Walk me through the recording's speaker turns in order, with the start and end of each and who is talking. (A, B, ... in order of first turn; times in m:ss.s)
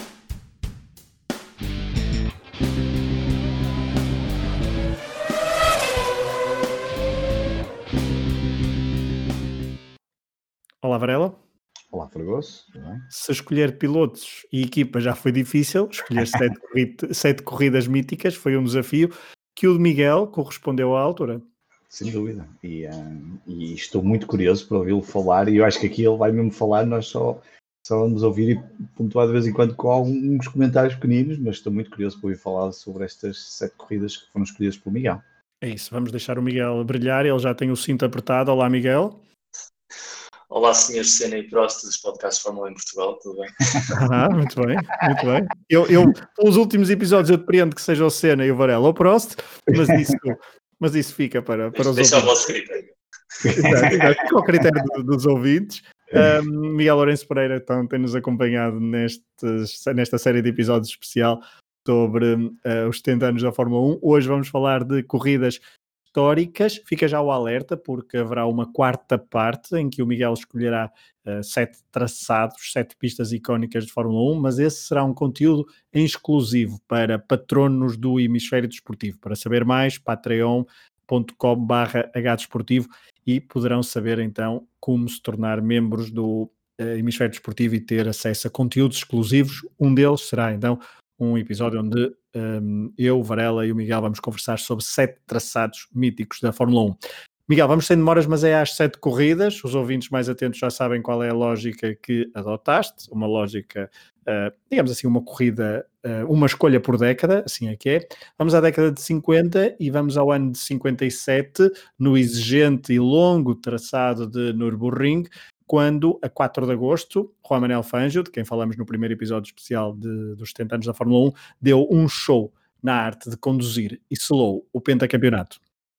0:10.8-0:11.4 A
0:11.9-0:13.0 B
0:13.1-0:21.4 A
0:21.9-0:35.2 B
0:35.6-0:39.2 A
0:40.5-0:43.8 C
0:43.9-0:52.3 A
0:51.8-0:52.9 C
0:53.4-0:53.8 B
0:53.5-1:05.6 A
1:06.1-1:37.0 A
1:37.5-2:05.6 A